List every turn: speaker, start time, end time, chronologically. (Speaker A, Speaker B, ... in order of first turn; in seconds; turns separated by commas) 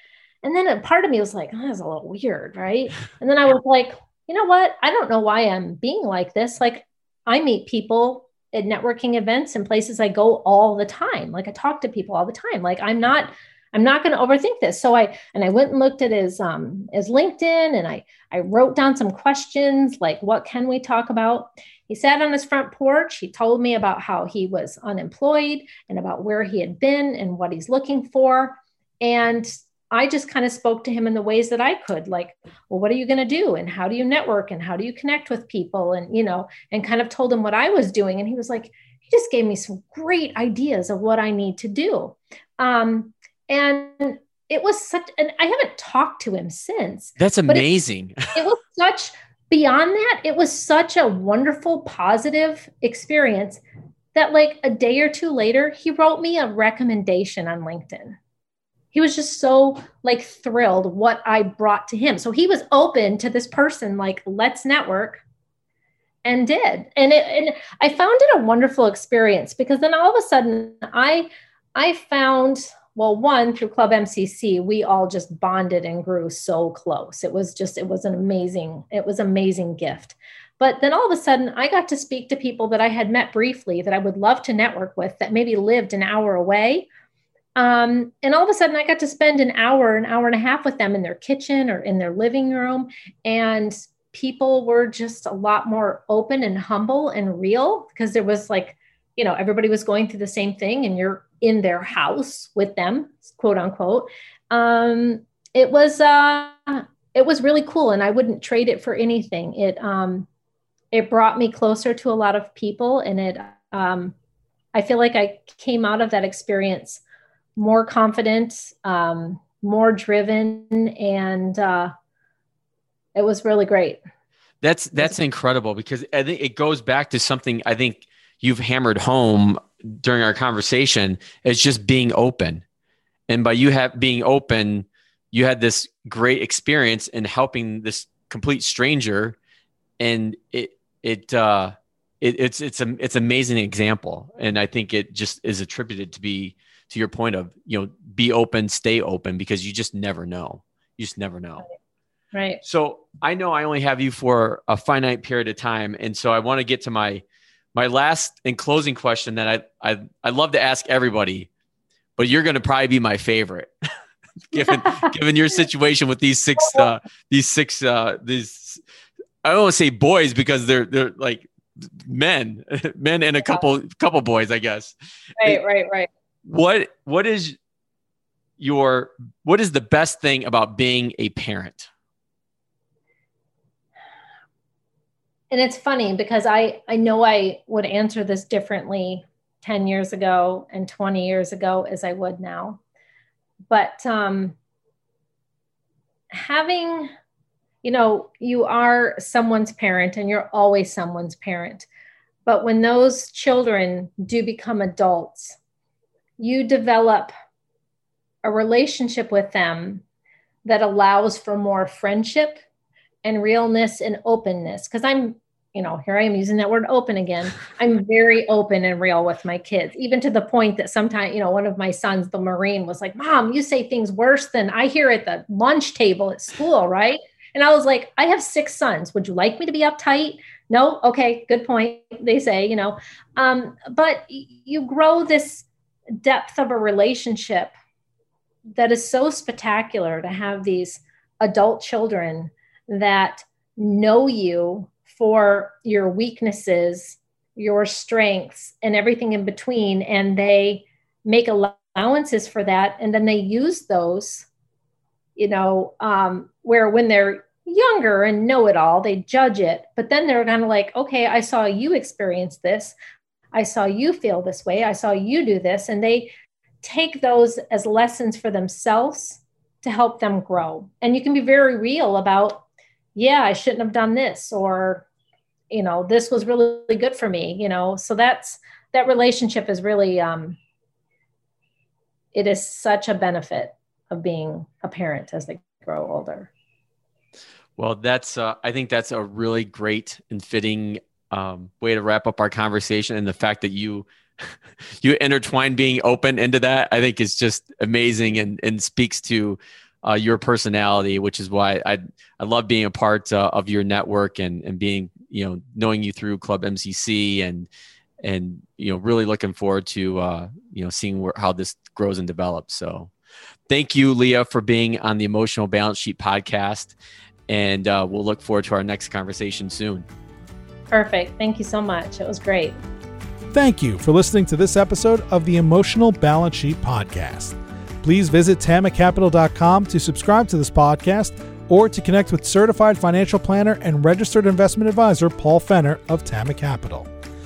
Speaker A: 0.4-47.6, Speaker B: 47.2-48.3, Speaker A: 48.3-53.6, Speaker A: 54.1-58.2, Speaker A: 58.9-65.2, Speaker A: 66.2-86.8, Speaker A: 87.5-110.3, Speaker A: 110.9-114.1, Speaker A: 114.7-117.0, Speaker A: 117.5-121.9, Speaker A: 123.1-124.0, Speaker B: 124.6-132.6, Speaker B: 133.3-139.4, Speaker B: 140.0-151.6, Speaker A: 152.3-152.6, Speaker B: 152.6-157.2, Speaker B: 157.7-161.5, Speaker B: 162.2-163.7, Speaker B: 164.5-168.8, Speaker A: 164.5-165.1, Speaker A: 166.6-166.9, Speaker B: 169.4-175.6, Speaker A: 175.4-176.1, Speaker B: 176.4-177.6, Speaker B: 178.6-181.9, Speaker A: 185.5-192.8, Speaker A: 193.7-194.6, Speaker A: 196.3-197.1, Speaker A: 197.8-201.9, Speaker A: 202.4-205.6, Speaker A: 206.4-207.3, Speaker A: 208.4-210.0, Speaker A: 210.6-212.6, Speaker A: 213.2-235.7, Speaker A: 236.2-237.7, Speaker A: 238.7-254.5, Speaker A: 255.4-262.9, Speaker A: 263.5-266.3, Speaker A: 266.8-275.1, Speaker A: 275.7-280.6, Speaker A: 282.3-286.5, Speaker B: 287.8-294.5, Speaker B: 295.0-307.7, Speaker B: 308.2-313.1, Speaker B: 313.7-316.9, Speaker B: 317.5-320.1, Speaker A: 320.9-322.8, Speaker C: 323.5-337.1